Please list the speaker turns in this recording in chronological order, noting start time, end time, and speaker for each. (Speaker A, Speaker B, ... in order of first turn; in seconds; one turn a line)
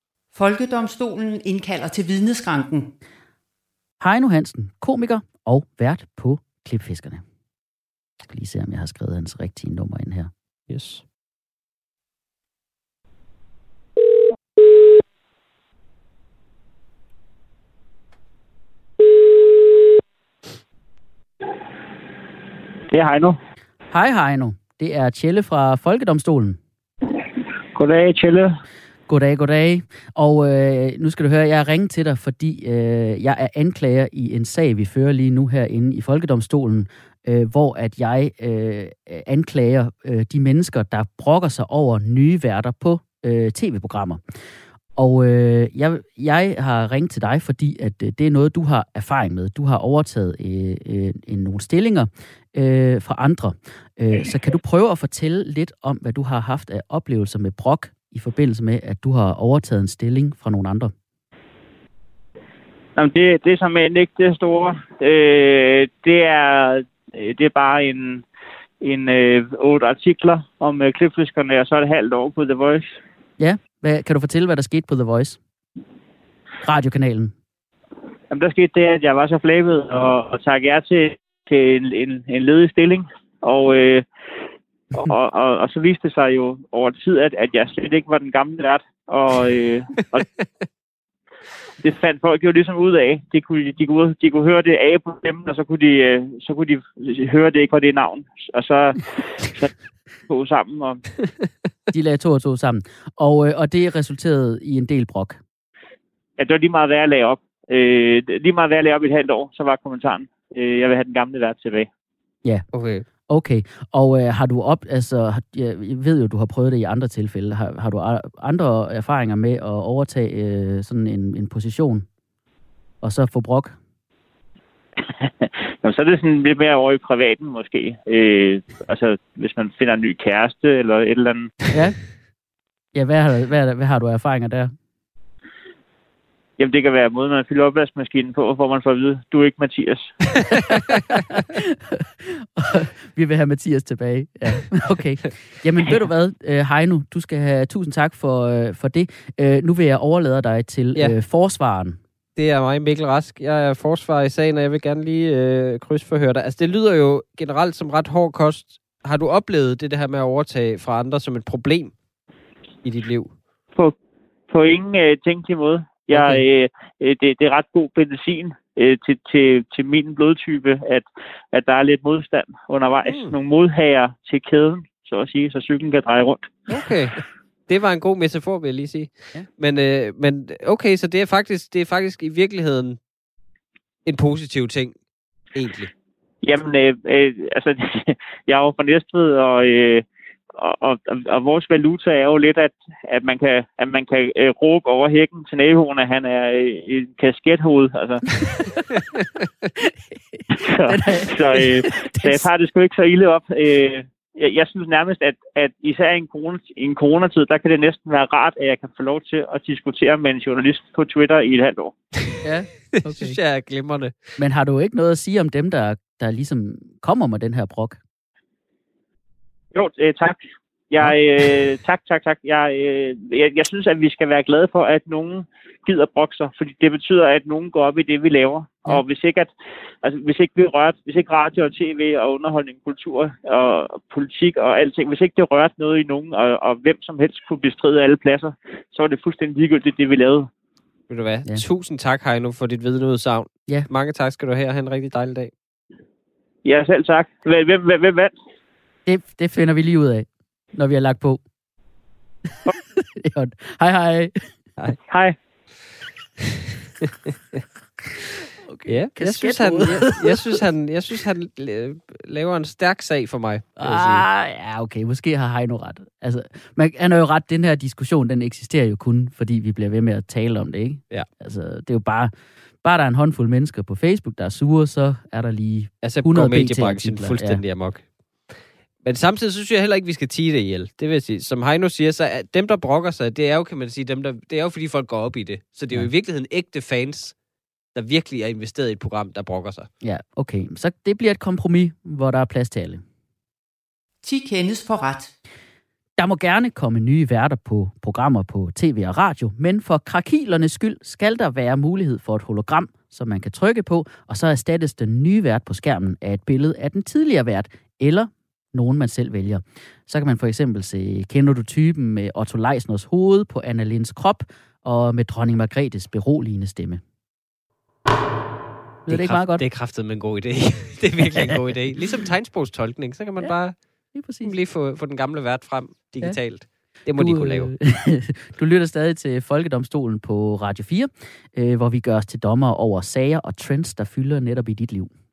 Speaker A: 0.3-2.9
Speaker B: 4.0-7.2
Speaker B: 8.3-10.3
Speaker C: 10.7-11.0
Speaker D: 22.9-23.4
Speaker B: 23.9-26.6
Speaker D: 27.7-28.5
Speaker B: 29.1-44.2
Speaker B: 45.0-60.9
Speaker D: 63.0-68.2
Speaker D: 68.8-72.9
Speaker B: 73.4-75.4
Speaker B: 76.6-77.3
Speaker D: 78.3-84.1
Speaker D: 84.9-90.2
Speaker D: 91.8-99.7
Speaker D: 100.3-101.0
Speaker B: 101.9-105.4
Speaker D: 106.4-111.9
Speaker C: 112.7-113.0
Speaker B: 113.3-122.0
Speaker B: 123.0-123.8
Speaker D: 125.8-131.5
Speaker B: 132.9-134.7
Speaker D: 136.6-140.6
Speaker B: 140.6-152.0
Speaker C: 152.3-161.9
Speaker C: 162.8-163.3
Speaker D: 164.5-176.6
Speaker B: 166.1-166.4
Speaker C: 173.1-173.3
Speaker C: 176.7-183.0
Speaker C: 184.0-185.0
Speaker C: 185.5-185.9
Speaker D: 186.4-198.2
Speaker B: 198.5-198.9
Speaker B: 199.8-202.5
Speaker D: 200.5-211.9
Speaker B: 212.4-213.4
Speaker C: 212.9-214.3
Speaker B: 214.4-218.0
Speaker D: 219.7-229.5
Speaker D: 230.0-240.5
Speaker C: 241.1-245.5
Speaker D: 246.6-248.3
Speaker B: 249.1-251.4
Speaker B: 253.0-254.5
Speaker D: 255.1-255.3
Speaker C: 256.4-257.6
Speaker B: 258.6-260.6
Speaker C: 258.9-264.2
Speaker B: 263.8-272.3
Speaker B: 272.8-277.6
Speaker C: 276.0-278.0
Speaker C: 279.0-287.3
Speaker C: 287.9-289.9
Speaker B: 290.0-293.0
Speaker A: 294.2-295.3
Speaker B: 296.2-317.0
Speaker B: 319.1-319.6
Speaker C: 319.1-323.7
Speaker B: 324.1-324.5
Speaker C: 324.4-327.7
Speaker B: 327.1-335.1